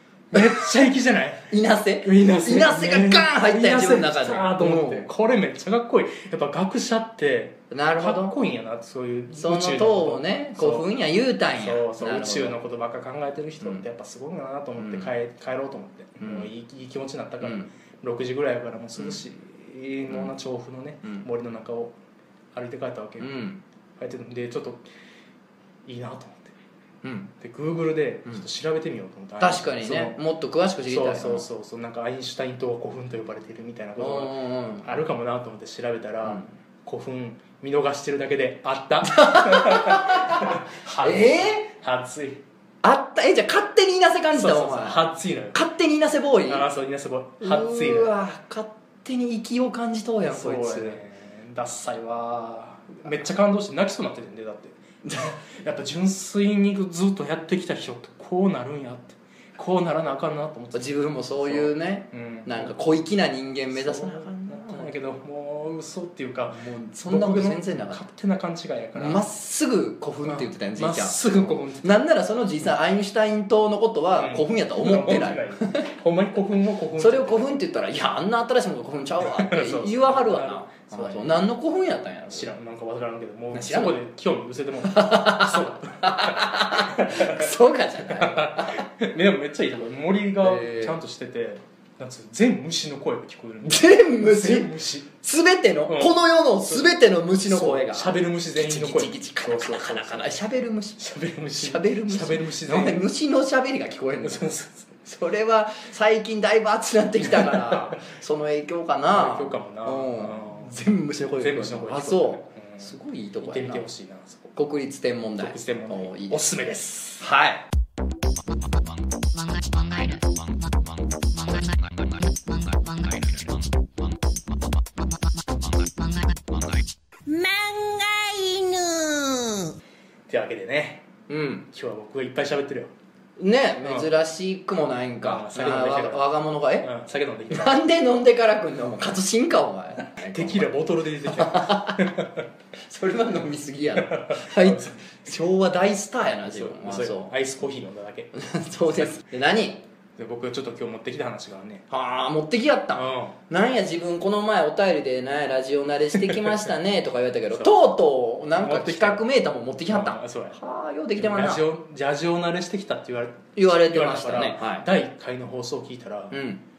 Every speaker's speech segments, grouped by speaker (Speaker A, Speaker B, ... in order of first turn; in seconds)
Speaker A: 0.3-1.5, 2.0-10.9, 11.5-21.9, 22.5-23.3, 24.0-24.9, 25.9-26.6, 27.4-30.2, 30.9-42.4, 44.3-45.6, 46.5-48.1, 50.2-62.8, 63.7-69.2, 70.2-72.0, 74.2-77.6, 79.2-81.5, 82.3-95.1, 95.9-100.4, 101.0-103.1, 104.2-105.0, 107.3-108.0, 109.1-110.8, 111.4-114.5, 115.4-117.3, 130.3-131.1, 131.7-132.9, 133.8-134.1, 135.2-137.8, 140.1-142.5, 144.0-145.0, 146.4-148.3, 148.8-149.2, 150.2-151.8, 153.0-153.3, 156.3-156.6, 158.6-159.3, 159.9-160.6, 161.2-166.3
Speaker B: 0.3-0.6, 1.5-5.1, 7.7-8.4, 9.3-12.6, 14.8-15.1, 16.2-16.5, 17.4-17.7, 23.2-23.6, 27.0-27.3, 29.4-31.5, 34.0-34.9, 36.2-36.5, 39.0-41.7, 42.8-46.7, 47.4-51.0, 55.0-55.4, 60.7-64.9, 66.5-68.0, 69.0-75.9, 77.0-82.5, 83.5-84.0, 84.8-88.9, 90.4-91.0, 93.7-101.0, 101.6-104.5, 105.0-113.9, 114.5-116.5, 117.2-117.7, 131.3-131.7, 133.4-136.9, 137.5-140.7, 141.3-142.2, 142.9-147.3, 148.3-149.8, 151.9-161.6, 163.6-164.9, 166.3-166.6
Speaker C: 119.3-120.8, 121.3-123.5, 125.8-126.5, 127.3-129.8